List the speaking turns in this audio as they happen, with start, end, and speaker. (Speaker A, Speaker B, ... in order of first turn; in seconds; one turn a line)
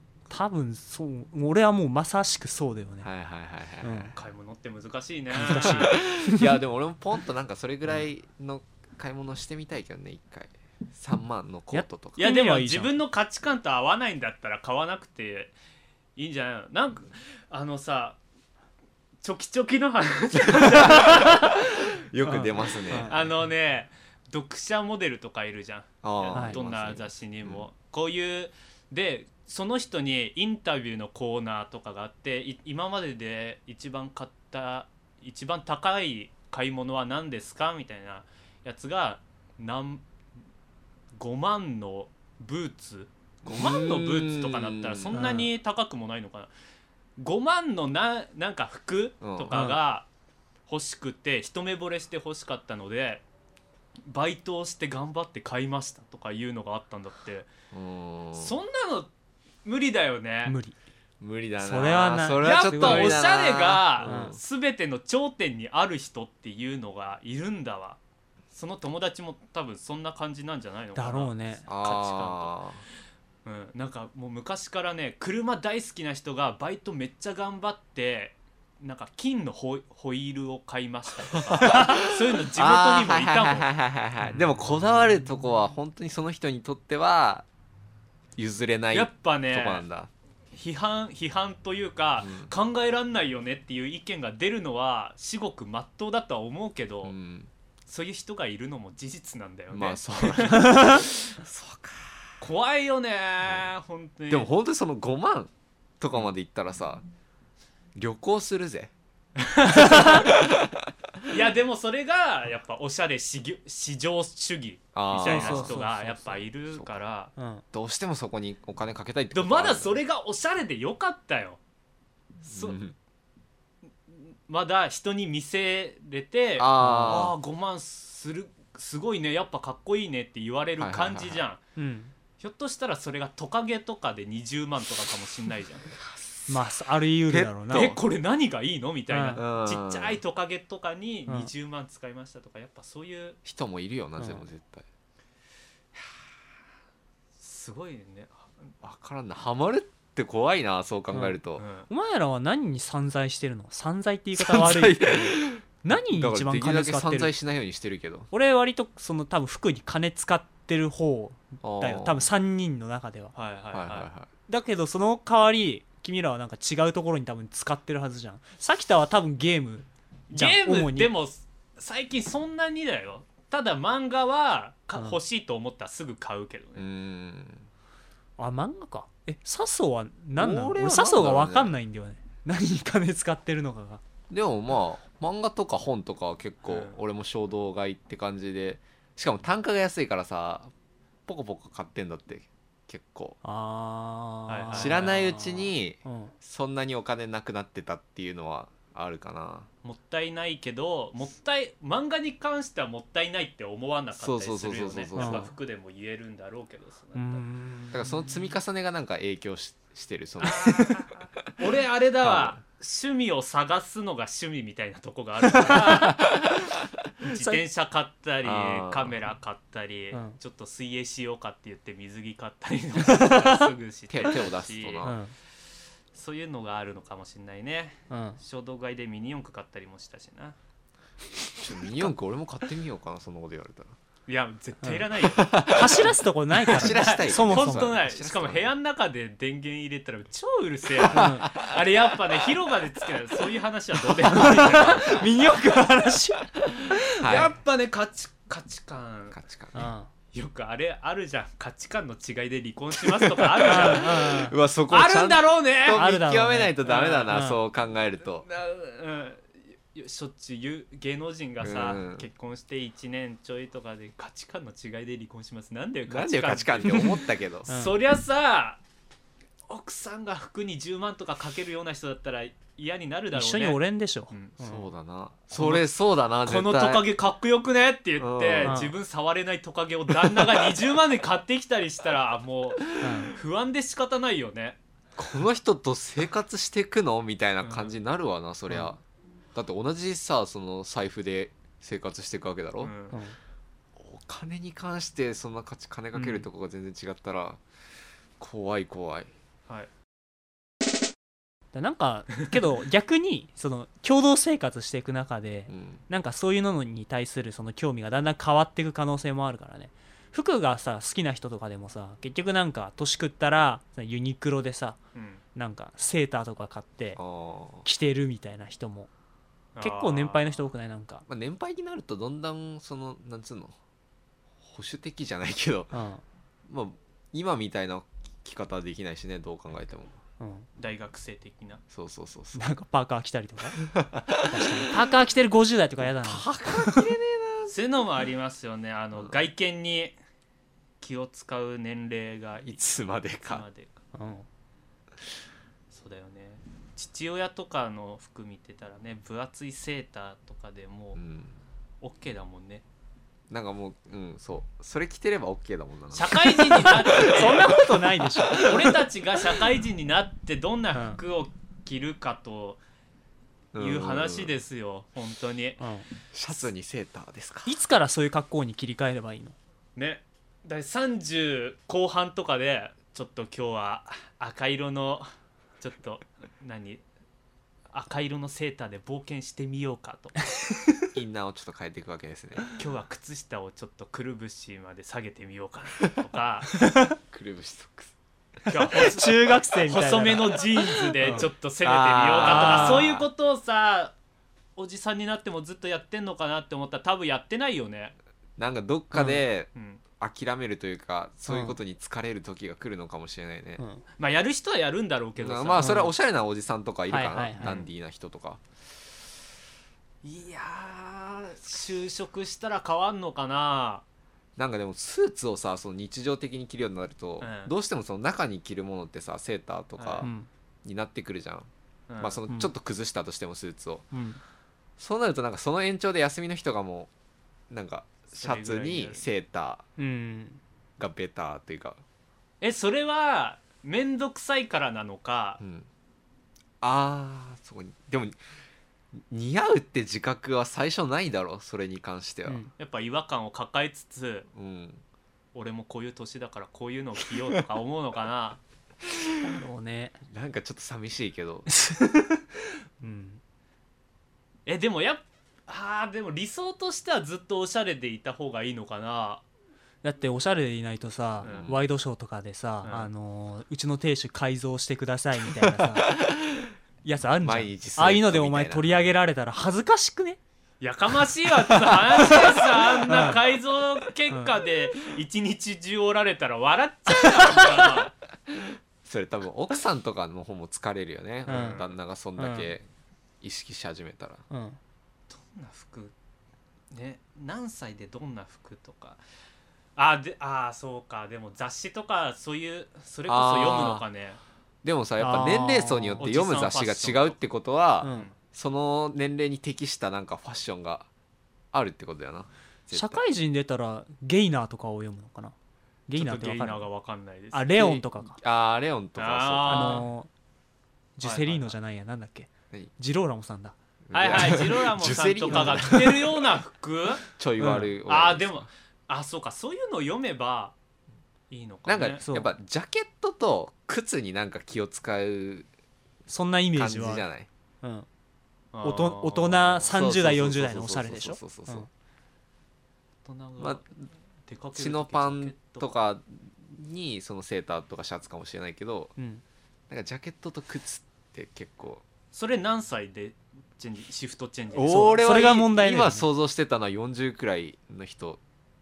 Speaker A: 0.3-3.1
Speaker B: 3.0-4.2
Speaker A: 3.8-4.2
Speaker C: 4.2-6.0
Speaker A: 5.3-6.6
Speaker B: 5.5-12.2
Speaker A: 11.7-13.0
Speaker C: 12.2-15.5
Speaker C: 16.2-18.2
Speaker C: 19.2-21.7
Speaker B: 20.4-23.1
Speaker A: 22.2-23.3
Speaker C: 23.0-40.0
Speaker B: 26.0-27.7
Speaker C: 41.2-46.5
Speaker B: 43.5-45.4
Speaker A: 45.1-45.5
Speaker C: 47.2-50.1
Speaker B: 49.2-49.5
Speaker A: 49.5-49.8
Speaker C: 50.7-53.2
Speaker C: 54.1-57.5
Speaker B: 57.7-58.5
Speaker C: 58.4-59.1
Speaker C: 59.6-60.6
Speaker A: 60.5-60.8
Speaker B: 61.2-64.4
Speaker A: 61.6-63.2
Speaker C: 62.4-68.0
Speaker A: 64.0-64.3
Speaker C: 68.5-72.6
Speaker A: 71.0-71.6
Speaker B: 71.7-72.8
Speaker C: 73.5-83.7
Speaker B: 81.5-87.5
Speaker B: 88.4-90.1
Speaker C: 88.9-89.8
Speaker C: 90.5-97.2
Speaker B: 92.2-92.5
Speaker B: 97.0-97.5
Speaker C: 97.9-101.1
Speaker B: 99.7-102.3
Speaker A: 100.6-101.0
Speaker C: 102.4-104.5
Speaker B: 104.3-107.0
Speaker B: 108.0-108.9
Speaker C: 109.4-110.3
Speaker B: 109.9-110.9
Speaker C: 111.3-117.3
Speaker B: 114.9-115.8
Speaker A: 115.2-116.4
Speaker B: 116.7-117.0
Speaker A: 117.4-117.6
Speaker B: 117.7-120.0
Speaker C: 119.3-121.6
Speaker C: 122.4-122.8
Speaker B: 122.5-123.0
Speaker C: 124.1-131.6
Speaker B: 126.6-127.3
Speaker A: 126.8-127.3
Speaker B: 130.8-131.4
Speaker A: 131.8-132.1
Speaker C: 132.4-135.9
Speaker A: 136.5-138.0
Speaker B: 137.3-138.0
Speaker C: 137.7-143.4
Speaker A: 139.1-139.4
Speaker B: 139.4-140.2
Speaker B: 143.4-144.8
Speaker A: 144.2-144.4
Speaker C: 147.4-148.7
Speaker B: 148.8-151.6
Speaker A: 151.1-151.4
Speaker C: 151.6-151.9
Speaker A: 151.9-157.3
Speaker B: 154.4-158.3
Speaker A: 158.3-163.3
Speaker B: 161.6-162.3
Speaker C: 163.3-164.1
Speaker B: 163.7-164.3
Speaker A: 164.5-171.1
Speaker C: 170.3-176.9
Speaker B: 176.8-177.7
Speaker A: 178.4-184.0
Speaker B: 180.4-181.8
Speaker B: 184.3-190.7
Speaker C: 186.7-187.0
Speaker B: 191.3-193.4
Speaker A: 193.4-196.3
Speaker C: 194.5-195.2
Speaker B: 194.7-199.7
Speaker C: 199.8-207.4
Speaker B: 204.2-205.5
Speaker A: 205.2-205.5
Speaker A: 207.2-208.4
Speaker B: 207.9-211.1
Speaker C: 210.4-216.2
Speaker B: 212.2-212.6
Speaker B: 215.6-216.9
Speaker C: 217.2-225.2
Speaker A: 217.3-217.6
Speaker B: 218.4-219.2
Speaker A: 223.1-223.5
Speaker B: 224.1-225.2
Speaker A: 225.0-225.3
Speaker C: 226.1-230.6
Speaker A: 228.1-228.4
Speaker B: 231.6-234.0
Speaker C: 234.3-235.7
Speaker B: 235.2-238.7
Speaker A: 235.6-238.0
Speaker C: 236.7-245.2
Speaker B: 241.0-241.8
Speaker A: 241.1-241.5
Speaker A: 244.3-247.5
Speaker B: 246.6-247.5
Speaker C: 247.2-249.4
Speaker B: 249.3-249.9
Speaker A: 249.8-250.1
Speaker C: 250.3-254.3
Speaker B: 253.0-258.4
Speaker A: 253.7-254.6
Speaker C: 254.9-256.1
Speaker A: 255.9-257.6
Speaker C: 256.8-257.4
Speaker C: 258.4-268.8
Speaker B: 261.6-262.3
Speaker B: 266.1-267.7
Speaker A: 267.7-268.0
Speaker C: 269.7-273.8
Speaker A: 273.3-274.8
Speaker C: 274.3-274.6
Speaker B: 274.6-277.1
Speaker C: 275.5-275.9
Speaker C: 276.4-284.8
Speaker B: 278.2-278.8
Speaker A: 278.6-278.9
Speaker A: 283.0-283.3
Speaker B: 285.2-289.0
Speaker C: 287.6-287.9
Speaker B: 289.5-292.9
Speaker C: 292.8-293.2
Speaker A: 293.1-293.4
Speaker B: 294.0-297.6
Speaker A: 296.2-296.4
Speaker B: 298.4-299.3
Speaker A: 301.7-315.0
Speaker B: 305.7-306.0
Speaker C: 315.1-315.4
Speaker A: 315.6-317.2
Speaker B: 317.2-317.9
Speaker A: 317.9-319.1
Speaker C: 319.8-320.6
Speaker A: 319.8-321.2
Speaker B: 321.3-323.8
Speaker B: 324.6-325.9
Speaker A: 325.9-326.2
Speaker B: 326.7-330.2
Speaker A: 330.4-330.7
Speaker C: 330.8-331.8
Speaker B: 331.9-332.7
Speaker A: 332.6-337.1
Speaker B: 333.8-334.9
Speaker B: 336.0-337.8
Speaker C: 337.7-340.1
Speaker C: 341.0-344.0
Speaker B: 342.6-343.6
Speaker A: 344.1-344.5
Speaker C: 345.9-351.2
Speaker B: 351.2-351.6
Speaker C: 352.0-352.8
Speaker B: 353.5-358.7
Speaker C: 356.1-357.8
Speaker A: 356.9-359.0
Speaker C: 358.5-362.8
Speaker B: 363.7-364.6
Speaker C: 363.8-365.8
Speaker A: 365.8-366.1
Speaker B: 366.3-367.8
Speaker A: 367.7-369.6
Speaker C: 370.0-375.3
Speaker C: 375.8-377.0
Speaker C: 377.9-380.4
Speaker B: 381.1-382.7
Speaker C: 382.8-386.7
Speaker A: 386.8-387.2
Speaker B: 387.3-388.1
Speaker A: 388.7-391.5
Speaker C: 388.7-394.1
Speaker B: 391.2-393.3
Speaker A: 392.4-393.1
Speaker C: 394.8-398.1
Speaker B: 398.6-403.8
Speaker A: 399.1-399.4
Speaker C: 399.7-400.0
Speaker A: 401.5-401.8
Speaker C: 404.2-406.1
Speaker B: 405.4-408.6
Speaker A: 405.8-406.1
Speaker A: 407.1-407.8
Speaker C: 407.6-407.9
Speaker C: 410.2-414.0
Speaker B: 414.6-420.3
Speaker C: 417.4-417.7
Speaker C: 420.0-420.3
Speaker A: 420.2-420.5
Speaker B: 420.8-421.7
Speaker C: 422.1-422.4
Speaker B: 422.2-424.1
Speaker A: 424.1-424.4
Speaker B: 425.0-427.1
Speaker B: 427.7-429.8
Speaker C: 428.3-429.3
Speaker A: 430.0-430.6
Speaker B: 431.0-432.0
Speaker C: 432.6-435.6
Speaker B: 435.6-435.9
Speaker B: 436.8-438.4
Speaker B: 439.1-442.6
Speaker A: 442.5-442.7
Speaker C: 442.8-444.5
Speaker B: 444.5-445.0
Speaker C: 445.5-448.6
Speaker A: 449.4-450.2
Speaker B: 450.3-451.7
Speaker A: 451.7-452.5
Speaker A: 453.0-453.4
Speaker C: 454.7-459.4
Speaker A: 460.0-466.2
Speaker C: 461.4-461.7
Speaker B: 461.4-461.8
Speaker C: 462.8-463.1
Speaker B: 465.5-466.7
Speaker A: 467.0-470.4
Speaker B: 467.4-469.0
Speaker C: 470.8-478.1
Speaker A: 473.1-473.4
Speaker B: 478.5-482.9
Speaker C: 481.5-481.9
Speaker A: 481.5-481.8
Speaker A: 482.4-482.7
Speaker B: 483.4-484.4
Speaker A: 484.5-484.8
Speaker C: 485.3-486.1
Speaker C: 486.9-489.2
Speaker C: 490.0-494.4
Speaker B: 493.3-494.1
Speaker B: 494.8-501.1
Speaker A: 495.2-496.2
Speaker C: 496.2-497.4
Speaker A: 498.0-498.3
Speaker C: 498.1-498.4
Speaker B: 501.7-503.2
Speaker A: 502.9-505.5
Speaker A: 506.1-506.9
Speaker C: 506.2-508.0
Speaker A: 507.5-508.4
Speaker B: 508.4-510.1
Speaker C: 509.2-510.1
Speaker A: 509.7-510.3
Speaker A: 511.2-513.8
Speaker C: 511.2-511.7
Speaker B: 514.1-516.4
Speaker C: 514.1-517.3
Speaker A: 515.5-515.8
Speaker B: 517.3-518.7
Speaker A: 517.6-517.9
Speaker C: 518.1-520.8
Speaker C: 521.5-522.2
Speaker B: 521.9-525.7
Speaker A: 522.2-522.5
Speaker A: 526.3-527.2
Speaker B: 526.7-527.5
Speaker A: 527.8-528.1
Speaker C: 528.7-529.9
Speaker A: 528.8-531.9
Speaker B: 529.9-531.9
Speaker C: 533.2-533.9
Speaker B: 533.6-534.1
Speaker C: 534.5-535.9
Speaker B: 534.8-539.1
Speaker A: 539.2-539.4
Speaker B: 539.9-542.0
Speaker C: 542.3-545.3
Speaker B: 544.7-548.4
Speaker A: 544.9-546.3